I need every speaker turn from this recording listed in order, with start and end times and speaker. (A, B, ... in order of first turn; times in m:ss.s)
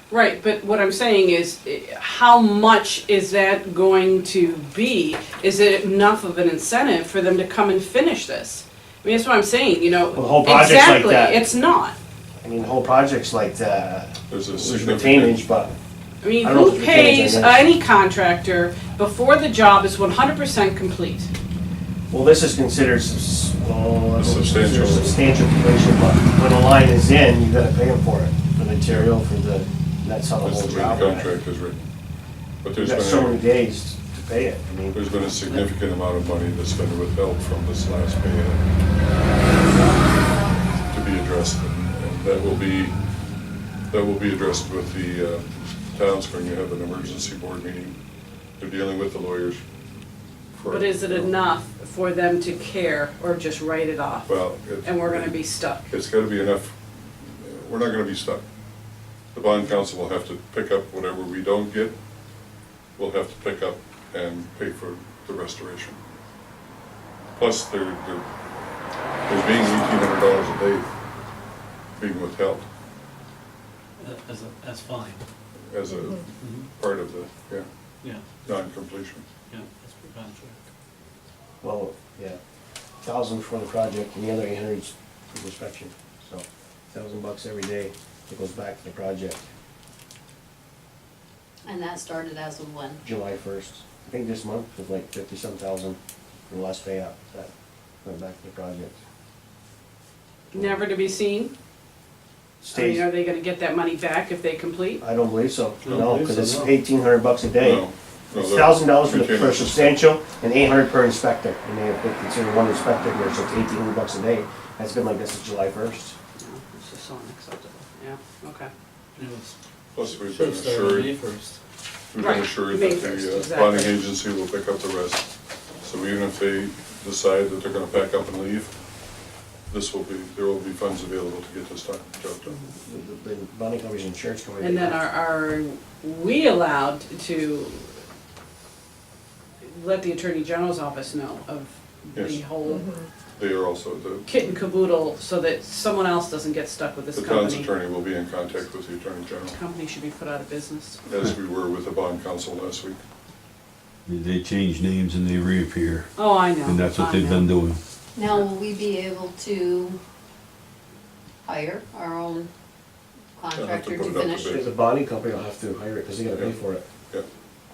0:00.1-0:12.0 A
0:10.2-0:11.4 B
0:12.4-0:15.8 B
0:14.3-0:15.5 C
0:16.2-0:21.3 A
0:16.4-0:17.6 B
0:22.1-0:31.3 B
0:24.2-0:25.2 C
0:30.4-0:31.9 C
0:32.6-0:33.4 C
0:32.8-0:35.0 B
0:34.9-0:38.6 C
0:39.5-0:40.7 D
0:40.9-0:43.0 C
0:43.9-0:48.0 C
0:48.6-0:49.6 C
0:50.5-0:51.3 C
0:50.6-0:55.8 A
0:54.3-0:58.4 C
0:59.3-1:02.0 C
1:03.0-1:06.0 C
1:07.4-1:08.2 C
1:09.3-1:10.9 C
1:12.0-1:12.6 C
1:14.0-1:15.2 E
1:15.7-1:17.7 C
1:16.4-1:16.7 E
1:18.0-1:18.4 E
1:18.4-1:19.2 C
1:19.5-1:20.6 E
1:21.6-1:22.4 B
1:23.0-1:29.5 B
1:31.7-1:33.0 D
1:33.0-1:37.5 B
1:38.0-1:39.0 B
1:40.5-1:41.5 A
1:42.6-1:43.1 B
1:42.7-1:45.0 A
1:45.0-1:56.2 B
1:45.8-1:46.8 E
1:47.6-1:50.0 C
1:56.4-1:58.7 A
1:59.2-1:59.6 E
1:59.9-2:01.1 C
2:00.1-2:01.6 E
2:02.1-2:05.3 C
2:02.2-2:04.0 A
2:05.8-2:08.7 C
2:09.7-2:12.6 C
2:12.5-2:12.7 A
2:12.8-2:15.0 B
2:14.6-2:17.9 A
2:19.6-2:23.0 A
2:22.2-2:22.5 C
2:23.4-2:24.3 C
2:24.3-2:27.7 A
2:27.1-2:29.6 C
2:29.5-2:31.0 A
2:31.0-2:33.0 C
2:34.1-2:36.1 F
2:36.2-2:37.6 A
2:36.6-2:37.8 F
2:38.2-2:40.0 D
2:41.4-2:42.5 D
2:43.4-2:44.6 D
2:43.5-2:44.7 C
2:44.5-2:46.8 B